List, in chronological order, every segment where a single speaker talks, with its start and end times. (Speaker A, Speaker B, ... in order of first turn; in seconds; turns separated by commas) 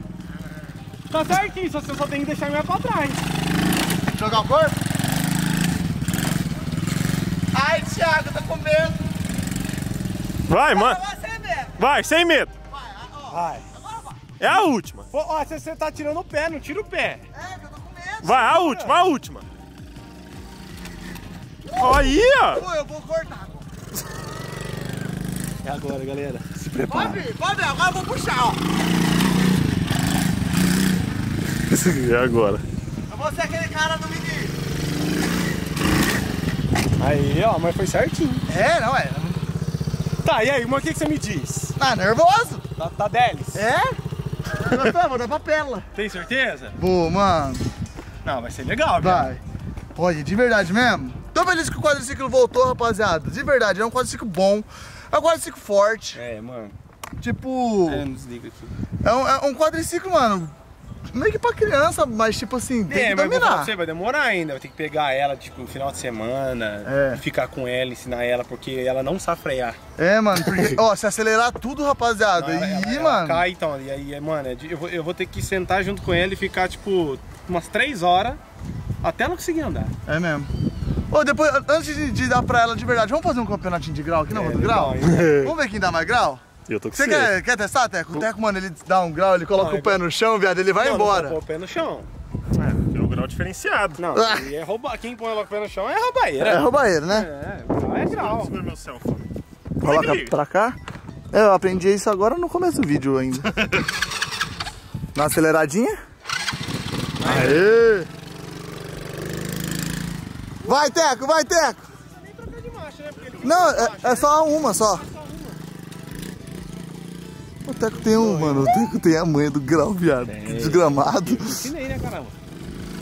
Speaker A: 1.1-3.2, Speaker B: 4.1-4.8, Speaker B: 7.5-9.0, Speaker C: 10.5-11.0, Speaker B: 10.7-11.8, Speaker C: 11.8-12.5, Speaker B: 12.7-14.3, Speaker A: 13.3-13.6, Speaker C: 14.4-15.1, Speaker A: 15.1-17.2, Speaker B: 17.3-18.4, Speaker C: 18.2-19.4, Speaker A: 18.3-18.9, Speaker B: 21.7-23.7, Speaker C: 21.8-22.6, Speaker A: 25.6-27.2, Speaker B: 26.9-28.6, Speaker C: 31.7-32.6, Speaker B: 33.1-34.5, Speaker A: 37.0-38.5, Speaker B: 38.5-39.4, Speaker A: 40.2-41.8, Speaker B: 41.8-42.6, Speaker A: 42.8-43.6, Speaker B: 43.5-44.0, Speaker B: 44.6-45.9, Speaker A: 45.9-46.8, Speaker B: 46.8-47.6, Speaker A: 48.2-49.3, Speaker B: 49.0-49.4, Speaker B: 49.9-56.2, Speaker A: 56.1-56.8, Speaker B: 57.2-58.1, Speaker A: 57.9-58.7, Speaker B: 59.0-60.5, Speaker B: 61.1-63.7, Speaker A: 62.9-69.8, Speaker B: 66.8-67.2, Speaker B: 70.0-73.4, Speaker A: 72.3-78.4, Speaker A: 79.0-79.9, Speaker B: 80.1-80.5, Speaker B: 81.1-86.4, Speaker A: 84.3-85.4, Speaker C: 85.1-85.5, Speaker C: 86.7-87.3, Speaker B: 86.9-91.4, Speaker A: 89.5-90.0, Speaker A: 90.7-92.1, Speaker C: 92.6-94.0, Speaker A: 94.0-98.5, Speaker B: 94.1-94.5, Speaker B: 96.4-97.3, Speaker C: 98.0-99.3, Speaker B: 99.8-100.8, Speaker C: 99.8-100.2, Speaker B: 101.3-103.5, Speaker C: 103.5-103.8, Speaker B: 105.2-106.0, Speaker A: 107.2-107.7, Speaker B: 107.2-108.1, Speaker A: 110.6-110.9, Speaker B: 110.7-111.8, Speaker A: 112.0-115.6, Speaker B: 113.4-115.0, Speaker B: 117.7-121.7, Speaker A: 117.9-118.8, Speaker A: 120.2-122.4